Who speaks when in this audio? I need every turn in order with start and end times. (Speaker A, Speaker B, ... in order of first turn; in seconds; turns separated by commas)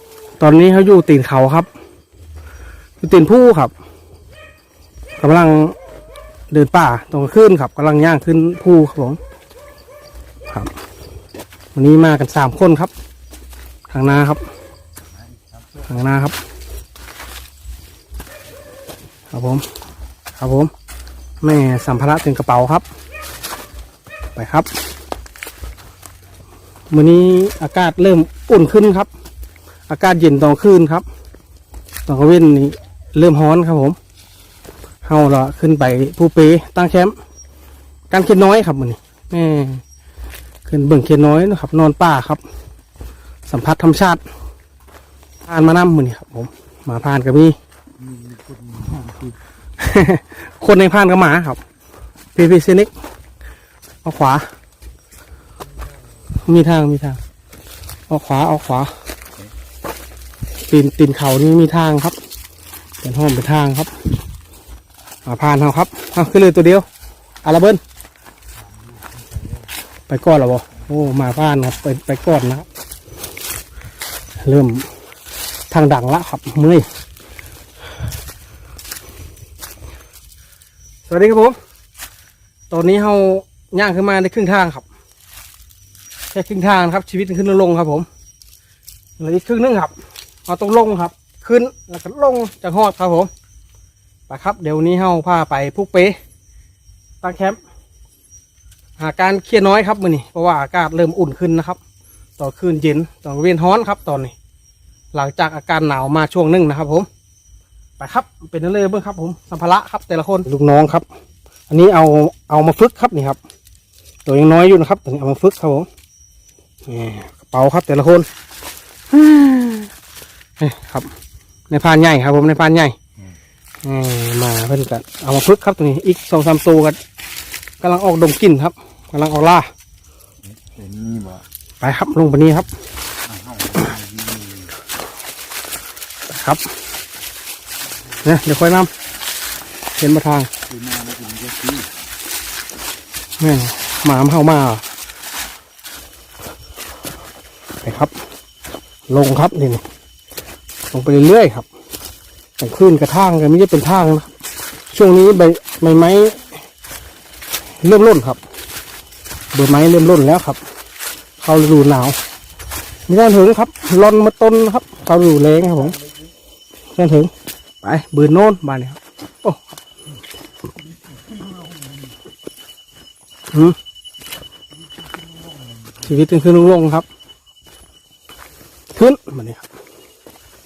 Speaker A: 0.4-1.7, Speaker A: 3.0-3.7, Speaker A: 5.2-5.8, Speaker A: 6.5-9.2, Speaker A: 11.7-12.9, Speaker A: 13.9-14.4, Speaker B: 15.2-15.9, Speaker A: 15.8-16.4, Speaker A: 19.3-19.7, Speaker A: 20.3-20.7, Speaker A: 21.4-22.9, Speaker A: 24.4-24.7, Speaker A: 26.9-29.1, Speaker A: 29.9-31.0, Speaker A: 32.0-34.0, Speaker A: 35.0-37.1, Speaker A: 38.1-39.8, Speaker A: 40.6-42.4, Speaker A: 43.5-44.2, Speaker A: 45.5-47.6, Speaker B: 48.0-49.4, Speaker A: 49.8-51.6, Speaker A: 52.3-52.9, Speaker A: 54.0-54.5, Speaker A: 56.3-57.2, Speaker A: 58.1-58.9, Speaker A: 60.7-62.1, Speaker A: 63.0-63.9, Speaker A: 65.2-66.9, Speaker A: 67.4-67.8, Speaker B: 68.6-69.7, Speaker A: 70.1-72.7, Speaker A: 74.4-74.9, Speaker A: 75.7-76.9, Speaker A: 81.1-81.6, Speaker A: 82.7-84.8, Speaker A: 86.3-88.1, Speaker A: 89.2-89.9, Speaker A: 90.5-93.3, Speaker A: 94.3-96.2, Speaker A: 97.2-97.6, Speaker A: 99.0-101.8, Speaker A: 102.4-104.3, Speaker A: 105.1-107.1, Speaker A: 108.0-111.0, Speaker A: 111.7-113.4, Speaker A: 114.2-115.9, Speaker A: 116.8-118.3, Speaker A: 119.1-119.9, Speaker A: 120.6-121.1, Speaker A: 121.7-123.0, Speaker A: 123.8-127.0, Speaker A: 127.8-129.7, Speaker B: 130.4-131.4, Speaker A: 131.8-132.7, Speaker B: 133.2-134.7, Speaker A: 136.3-136.7, Speaker A: 138.2-138.9, Speaker A: 140.0-140.5, Speaker B: 140.7-141.9, Speaker A: 143.4-144.8, Speaker A: 147.8-148.1, Speaker A: 149.1-149.8, Speaker A: 150.9-151.7, Speaker A: 152.6-154.3, Speaker A: 154.9-156.6, Speaker A: 157.8-158.4, Speaker A: 159.5-160.6, Speaker A: 161.4-162.2, Speaker A: 163.1-166.0, Speaker A: 166.9-167.3, Speaker A: 167.8-169.8, Speaker B: 171.3-172.0, Speaker A: 173.5-173.8, Speaker B: 174.7-176.3, Speaker A: 176.1-177.1, Speaker A: 178.9-179.7